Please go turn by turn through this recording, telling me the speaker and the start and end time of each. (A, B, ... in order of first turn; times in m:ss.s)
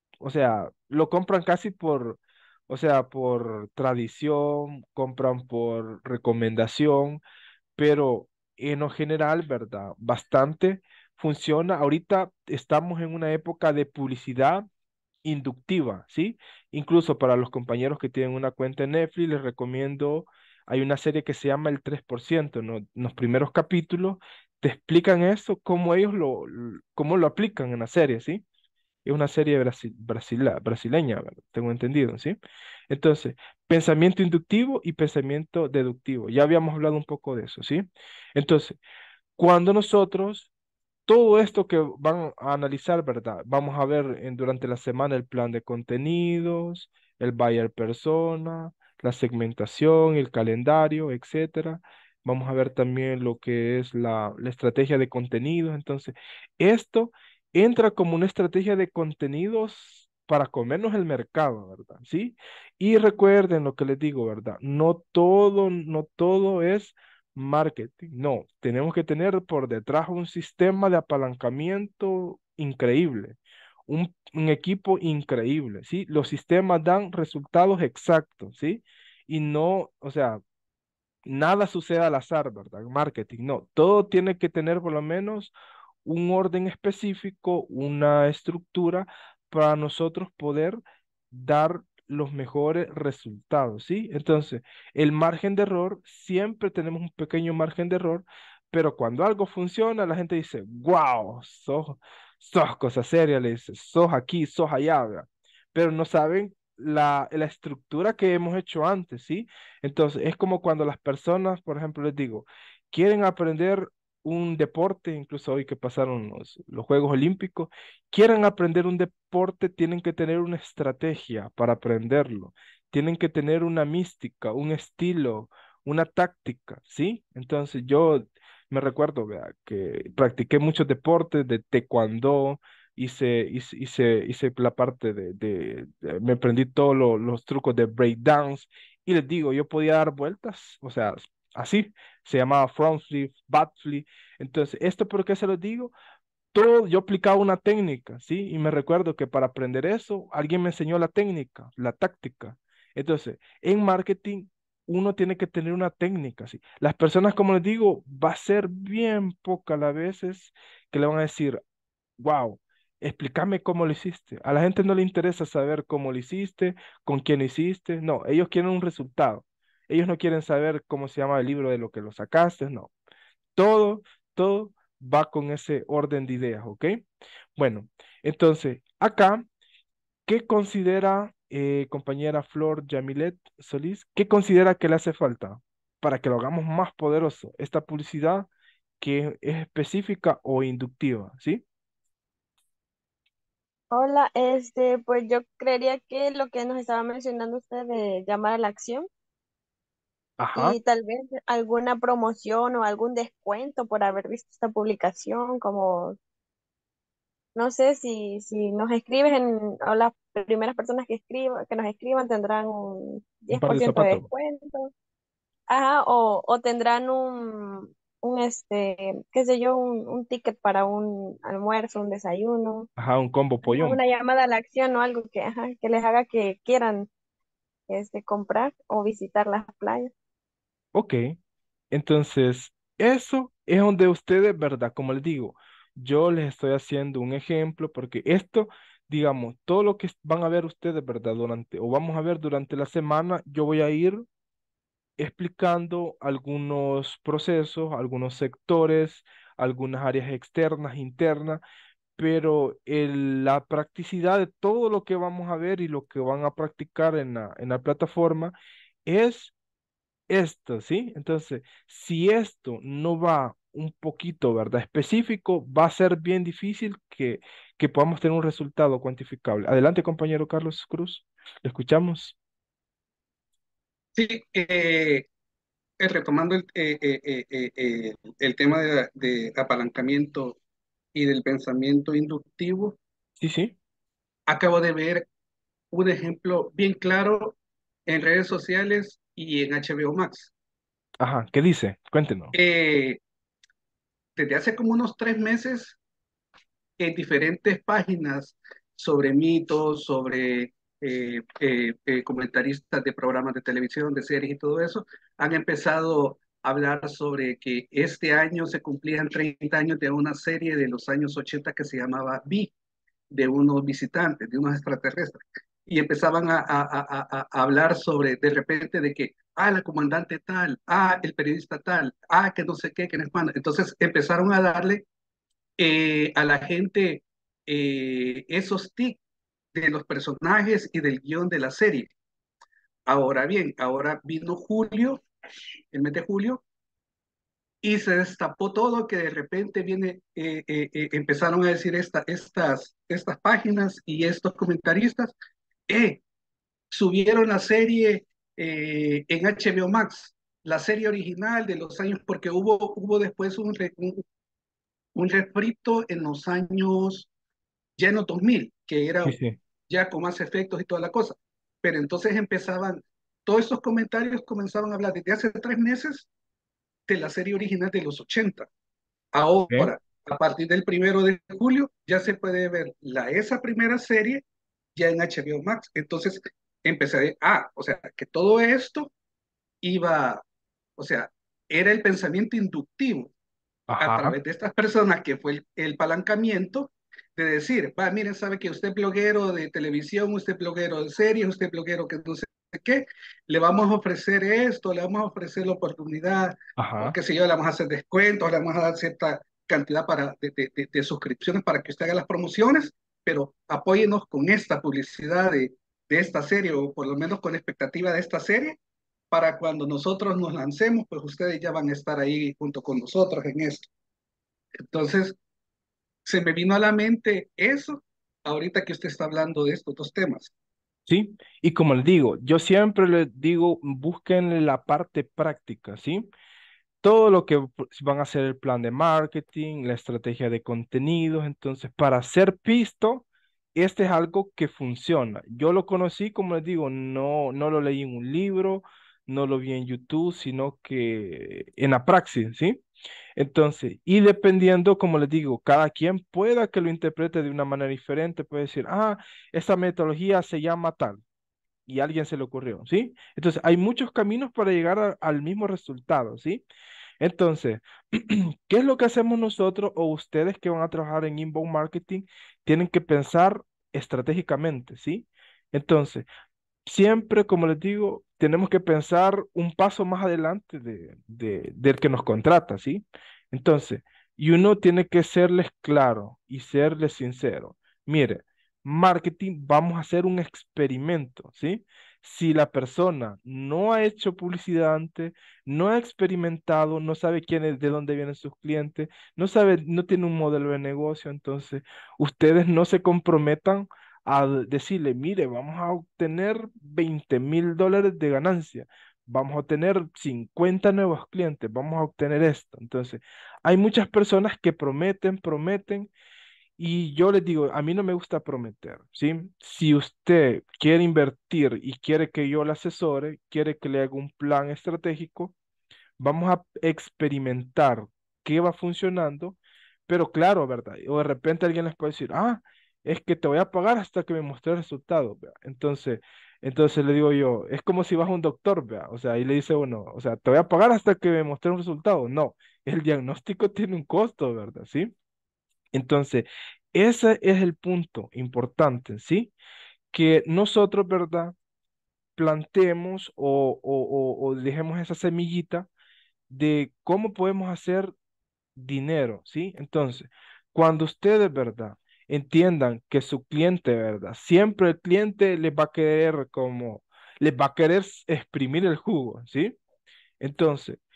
0:00.2-0:07.2 A
0:07.8-0:14.6 A
0:15.2-0:28.4 A
0:29.0-0:32.4 A
0:32.9-0:37.8 A
0:38.4-0:38.8 A
0:39.4-0:40.5 A
0:41.1-1:13.4 A
1:13.9-1:20.4 A
1:21.2-1:25.5 A
1:26.0-1:30.8 A
1:31.3-2:25.9 A
2:26.5-2:41.6 A
2:42.2-2:52.9 A
2:53.6-2:57.0 A
2:57.6-2:59.4 A
3:00.3-3:08.5 A
3:09.0-3:11.6 A
3:13.9-3:19.1 B
3:20.4-3:20.8 A
3:20.5-3:26.2 B
3:27.6-3:34.9 B
3:33.5-3:34.3 A
3:35.7-3:42.9 B
3:43.0-3:44.0 A
3:43.6-3:47.1 B
3:47.9-3:50.1 B
3:50.9-3:51.4 A
3:51.9-4:04.2 A
4:05.2-4:11.6 A
4:12.2-4:18.5 A
4:19.0-4:19.5 A
4:20.3-4:32.4 A
4:34.1-4:35.3 C
4:36.0-4:40.6 C
4:41.1-4:43.0 C
4:43.4-4:43.7 A
4:44.5-4:45.2 C
4:45.9-4:47.6 C
4:48.1-4:50.5 C
4:51.2-4:52.5 A
4:52.5-4:53.2 C
4:54.4-4:56.0 C
4:57.0-5:12.7 C
5:13.3-5:25.0 C
5:25.8-5:29.2 C
5:29.7-5:32.1 C
5:33.1-5:35.2 C
5:35.9-5:36.6 C
5:37.8-5:45.3 C
5:45.9-5:46.2 C
5:46.9-5:54.2 C
5:55.1-5:57.3 C
5:58.0-5:59.4 C
5:59.2-5:59.6 A
5:59.9-6:06.3 C
6:07.1-6:08.7 C
6:09.3-6:14.4 C
6:15.0-6:19.1 C
6:19.8-6:20.4 C
6:21.0-6:23.3 C
6:23.9-6:24.4 A
6:24.0-6:48.8 C
6:36.8-6:37.1 A
6:49.3-6:53.8 C
6:54.8-6:55.4 C
6:56.2-7:00.5 C
7:01.1-7:06.2 A
7:07.0-7:13.2 A
7:13.8-7:22.8 A
7:23.4-7:31.2 A
7:31.9-7:36.6 A
7:37.2-7:46.2 A
7:46.8-8:26.1 A
8:26.8-8:35.5 A
8:36.2-8:39.6 A
8:40.1-8:55.1 A
8:55.9-8:59.5 A
9:00.1-9:01.5 A
9:02.4-9:05.9 A
9:06.5-9:08.1 A
9:08.8-9:19.8 A
9:20.4-9:21.0 A